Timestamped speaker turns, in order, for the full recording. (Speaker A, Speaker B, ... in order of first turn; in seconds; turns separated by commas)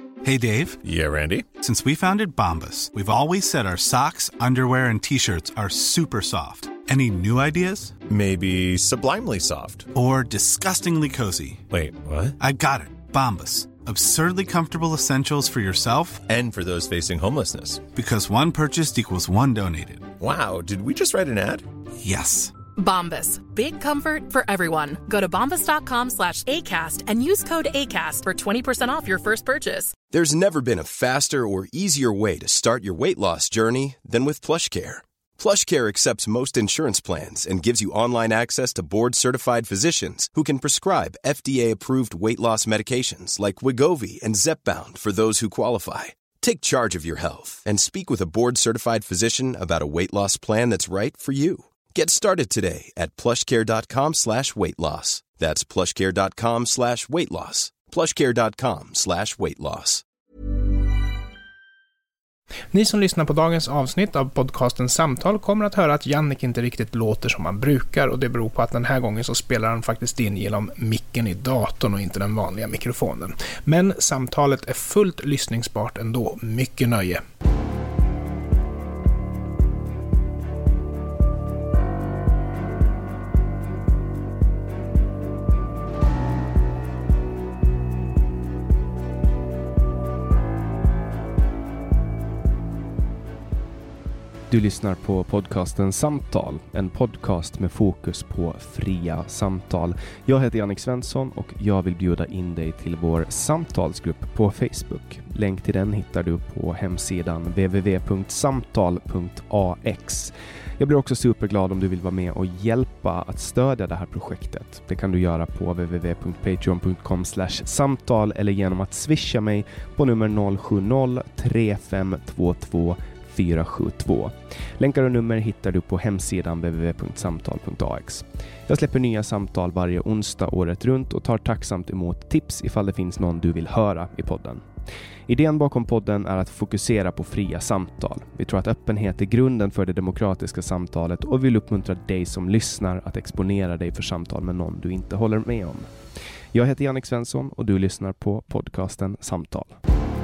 Speaker A: 0.2-0.8, Speaker B: 0.8-1.5, Speaker A: 1.6-8.0, Speaker B: 8.1-9.9, Speaker A: 9.9-11.7, Speaker B: 11.7-12.3, Speaker A: 12.4-16.2, Speaker B: 16.3-17.8, Speaker A: 17.9-20.1, Speaker B: 20.2-21.6, Speaker A: 22.0-22.5, Speaker C: 22.8-29.9, Speaker D: 30.1-60.0, Speaker E: 62.7-77.2, Speaker F: 94.5-134.7, Speaker F: 135.3-145.9, Speaker F: 146.5-149.8